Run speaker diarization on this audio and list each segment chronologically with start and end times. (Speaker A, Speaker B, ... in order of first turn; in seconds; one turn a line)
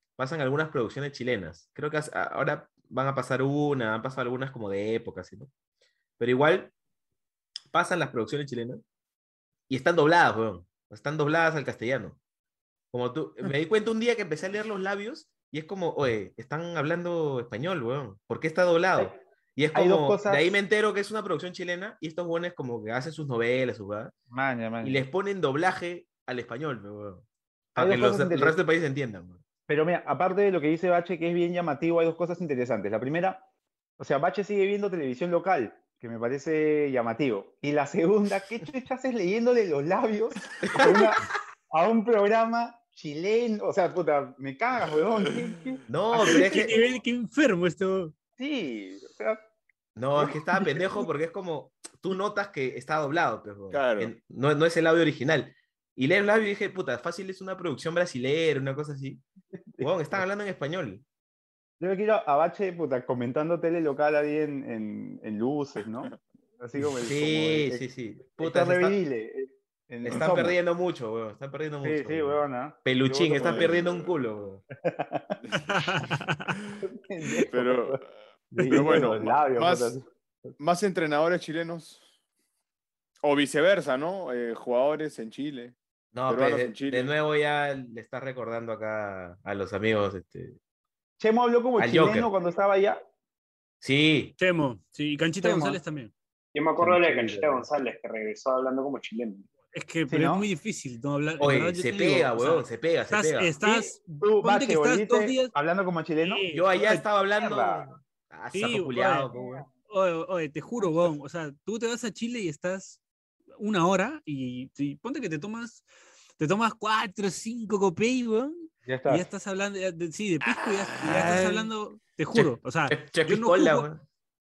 Speaker A: 0.2-5.5
Speaker A: 6.2-6.7
Speaker A: 7.7-8.8
Speaker A: 9.7-12.2
Speaker A: 12.9-24.1
Speaker B: 19.7-20.6
Speaker B: 24.3-25.0
Speaker A: 24.8-29.4
Speaker B: 27.8-28.6
Speaker B: 29.7-33.4
Speaker B: 34.0-46.6
Speaker A: 40.6-41.0
Speaker A: 45.9-46.8
Speaker C: 46.2-48.1
Speaker B: 48.4-49.4
Speaker A: 50.0-59.2
Speaker D: 53.7-54.1
Speaker A: 59.8-61.0
Speaker B: 61.8-70.6
Speaker A: 67.0-69.0
Speaker A: 70.0-74.6
Speaker B: 71.8-73.8
Speaker D: 73.3-74.1
Speaker B: 74.8-75.4
Speaker D: 75.4-76.7
Speaker C: 75.6-76.5
Speaker B: 76.8-78.0
Speaker D: 77.5-78.1
Speaker B: 78.5-80.5
Speaker D: 78.7-80.0
Speaker D: 80.6-82.0
Speaker D: 83.2-85.7
Speaker A: 86.1-90.6
Speaker D: 86.3-87.1
Speaker B: 91.2-93.0
Speaker A: 91.8-92.3
Speaker A: 93.8-94.3
Speaker C: 94.4-96.1
Speaker B: 95.4-95.8
Speaker E: 96.5-99.5
Speaker C: 97.0-97.4
Speaker B: 97.1-97.4
Speaker C: 99.7-105.5
Speaker B: 100.1-100.5
Speaker A: 101.4-103.6
Speaker B: 103.6-106.4
Speaker C: 106.2-107.0
Speaker A: 106.5-109.7
Speaker B: 107.3-107.9
Speaker C: 108.5-113.0
Speaker C: 113.6-115.8
Speaker C: 116.4-123.9
Speaker B: 118.8-119.3
Speaker D: 120.9-121.4
Speaker A: 121.0-121.7
Speaker A: 122.3-124.0